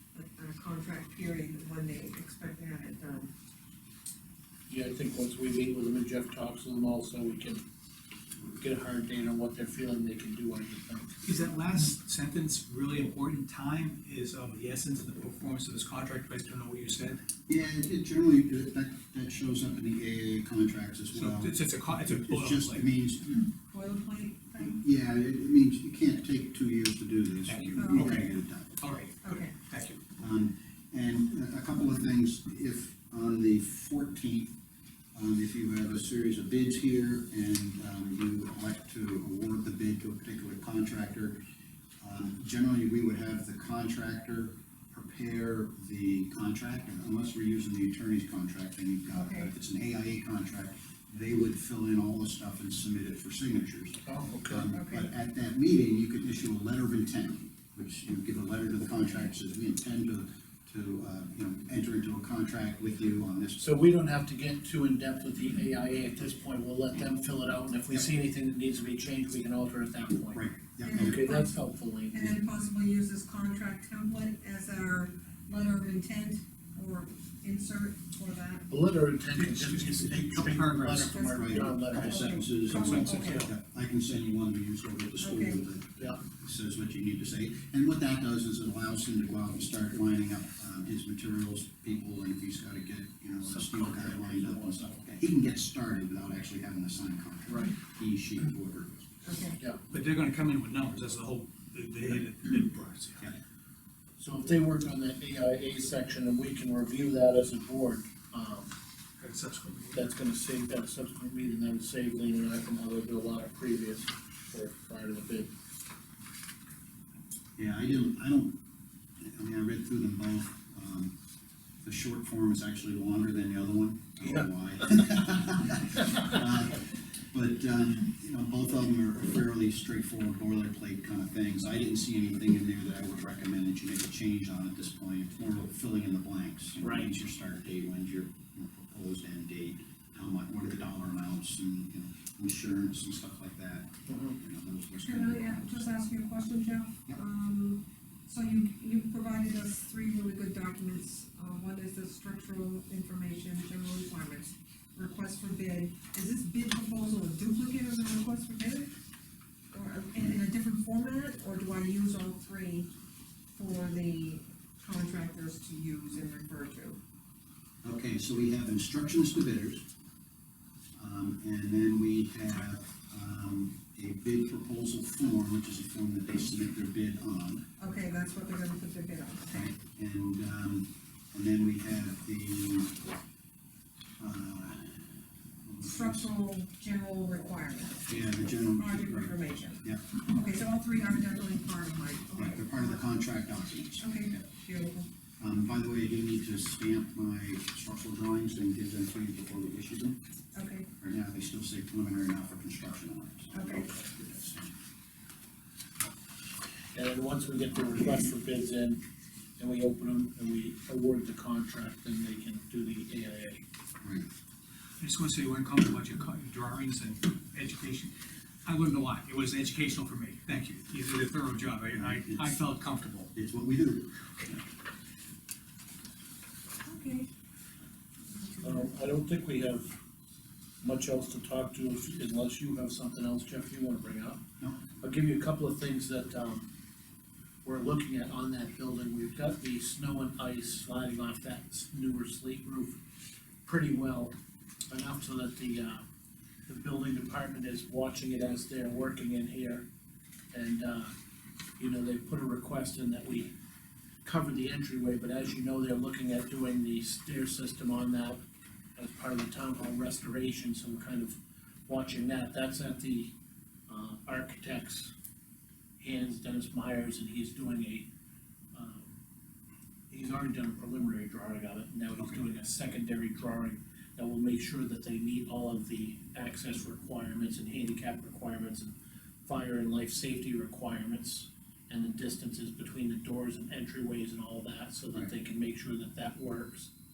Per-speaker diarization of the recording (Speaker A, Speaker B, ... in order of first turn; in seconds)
Speaker A: 0.1-3.3, 23.7-24.8, 27.8-28.3, 29.2-29.6, 49.1-49.5, 54.7-55.1, 70.8-78.7, 81.3-83.4, 85.2-85.7, 99.2-99.6, 145.0-158.9, 159.7-162.9, 163.5-167.0, 177.8-179.7, 185.8-188.1, 188.8-193.0, 194.0-195.1, 200.6-200.9, 203.5-203.9, 226.8-227.3, 228.3-228.9
Speaker B: 4.7-7.6, 8.6-11.2, 54.0-54.7, 63.6-72.3, 78.7-82.5, 93.5-94.8, 97.5-97.7, 104.2-108.7, 109.9-115.5, 136.8-137.1, 144.1-144.4, 206.9-209.0, 209.6-213.6, 228.6-229.9, 230.8-234.4, 235.0-236.7, 237.6-243.0, 243.7-244.3, 244.9-246.0, 246.7-249.8, 250.5-251.1, 251.8-253.5, 254.2-258.4, 258.9-263.3, 263.9-265.1, 266.0-268.1, 268.7-269.1, 270.1-278.9, 279.4-286.9
Speaker C: 11.2-17.2, 21.1-22.8, 27.5-28.2, 28.8-30.0, 79.4-81.1, 82.7-83.5, 99.9-103.3, 109.2-110.0, 215.0-218.1, 218.7-223.3
Speaker D: 17.5-23.5, 24.6-28.8, 30.2-34.5, 35.1-41.4, 42.0-63.6, 70.3-71.2, 81.1-98.9, 117.6-118.6, 119.2-121.1, 121.8-145.9, 167.8-169.8, 171.0-177.7, 179.5-182.9, 184.2-185.1, 185.7-186.3, 188.1-190.0, 192.3-194.3, 195.4-200.2, 201.0-204.7, 214.0-214.3, 221.9-222.6, 223.3-224.6